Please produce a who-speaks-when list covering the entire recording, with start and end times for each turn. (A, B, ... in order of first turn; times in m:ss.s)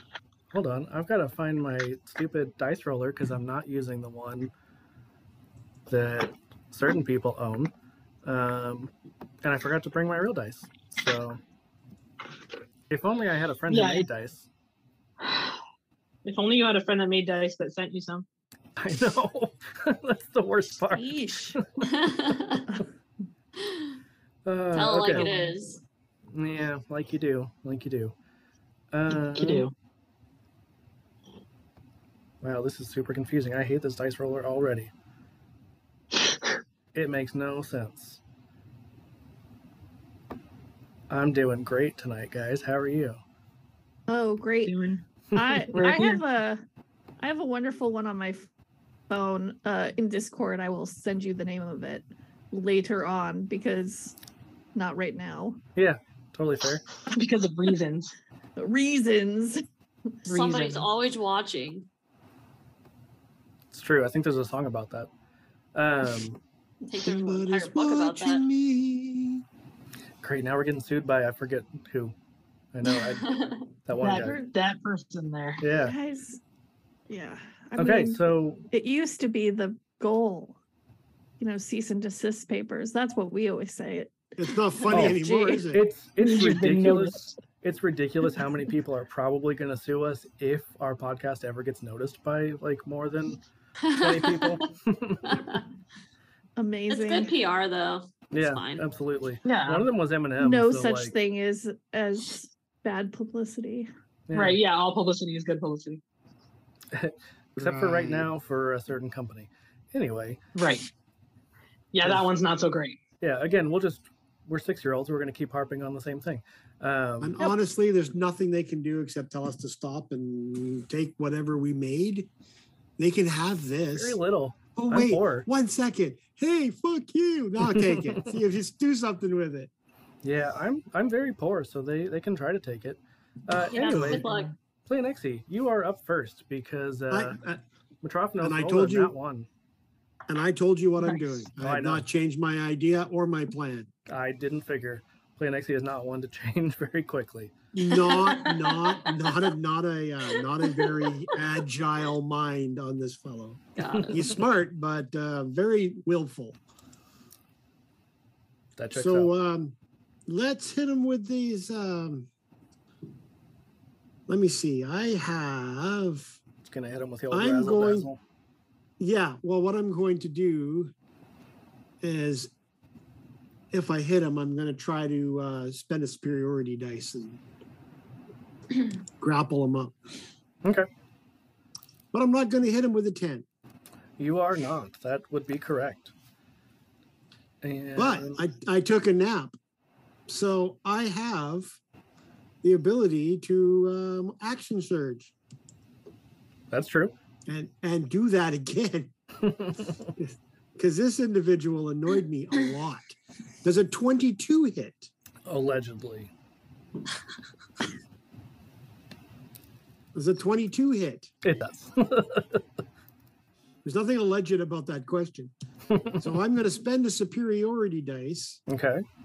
0:00.5-0:04.5 A
0:05.9-0:07.7 A
0:08.2-0:08.9 A
0:09.4-0:11.4 A
0:12.9-0:14.5 A
0:13.7-0:14.1 B
0:15.2-0:15.5 B
0:16.2-0:18.2 B
0:18.8-0:21.8 A
0:20.9-0:21.6 C
0:21.8-0:22.7 D
0:23.6-0:23.9 D
0:24.4-0:25.3 A
0:24.7-0:25.8 D
0:26.3-0:28.1 A
0:28.9-0:29.7 A
0:29.1-0:29.7 B
0:32.4-0:34.9 A
0:36.9-0:38.2 A
0:41.1-0:43.2 A
0:44.1-0:44.8 C
0:44.6-0:45.0 B
0:45.4-0:45.7 A
0:45.4-0:46.6 C
0:45.7-0:46.2 B
0:47.2-0:48.5 C
0:49.1-0:54.2 C
0:54.8-0:55.6 C
0:55.8-0:56.8 A
0:57.0-0:58.1 B
0:58.6-0:59.6 C
1:00.2-1:00.9 B
1:00.3-1:01.9 D
1:03.7-1:05.1 A
1:05.7-1:06.4 A
1:06.9-1:08.4 D
1:07.0-1:09.4 E
1:10.2-1:12.1 A
1:12.7-1:14.4 A
1:13.2-1:13.7 D
1:14.0-1:15.6 B
1:15.6-1:15.9 A
1:15.8-1:16.4 C
1:17.1-1:20.6 C
1:17.8-1:18.6 A
1:21.4-1:24.2 C
1:24.4-1:25.9 E
1:24.8-1:25.8 C
1:24.9-1:25.2 A
1:25.7-1:33.4 A
1:26.2-1:27.4 B
1:33.8-1:34.7 D
1:33.9-1:35.4 A
1:35.2-1:35.6 D
1:36.6-1:37.3 C
1:36.9-1:38.8 D
1:38.3-1:41.1 A
1:39.4-1:39.9 B
1:40.4-1:43.9 C
1:44.3-1:44.6 A
1:44.3-1:46.0 B
1:46.9-1:50.4 A
1:47.6-1:48.3 E
1:50.5-1:50.9 B
1:51.9-1:53.0 B
1:53.2-1:57.5 A
1:57.2-2:02.3 E
2:03.0-2:04.2 E
2:03.9-2:05.4 A
2:04.8-2:09.7 E
2:07.6-2:08.3 A
2:10.2-2:14.3 A
2:13.7-2:14.5 D
2:13.8-2:14.5 B
2:13.9-2:14.2 E
2:14.9-2:17.4 A
2:17.1-2:17.6 E
2:18.0-2:19.5 A
2:18.4-2:19.1 E
2:20.3-2:23.9 E
2:21.0-2:21.4 B
2:21.6-2:22.0 A
2:24.1-2:27.6 A
2:27.7-2:36.6 E
2:28.0-2:28.8 D
2:33.8-2:34.2 D
2:38.8-2:39.3 A
2:38.9-2:39.8 E
2:40.3-2:42.3 E
2:44.3-2:46.4 E
2:46.6-2:48.2 A
2:47.3-2:48.1 E
2:49.0-2:50.9 E
2:52.0-2:52.5 E
2:53.7-2:57.4 E
2:59.2-3:00.0 E
3:02.1-3:03.4 E
3:04.2-3:06.1 A
3:07.6-3:08.4 A
3:08.0-3:09.5 E
3:10.3-3:11.8 E
3:12.6-3:15.3 E
3:16.7-3:17.1 A
3:17.4-3:19.1 E
3:19.4-3:19.9 A
3:20.2-3:25.1 E
3:25.4-3:26.3 A
3:30.1-3:31.3 E
3:31.4-3:32.6 A
3:33.8-3:35.5 E
3:35.9-3:36.2 A
3:36.2-3:38.6 E
3:38.7-3:39.0 A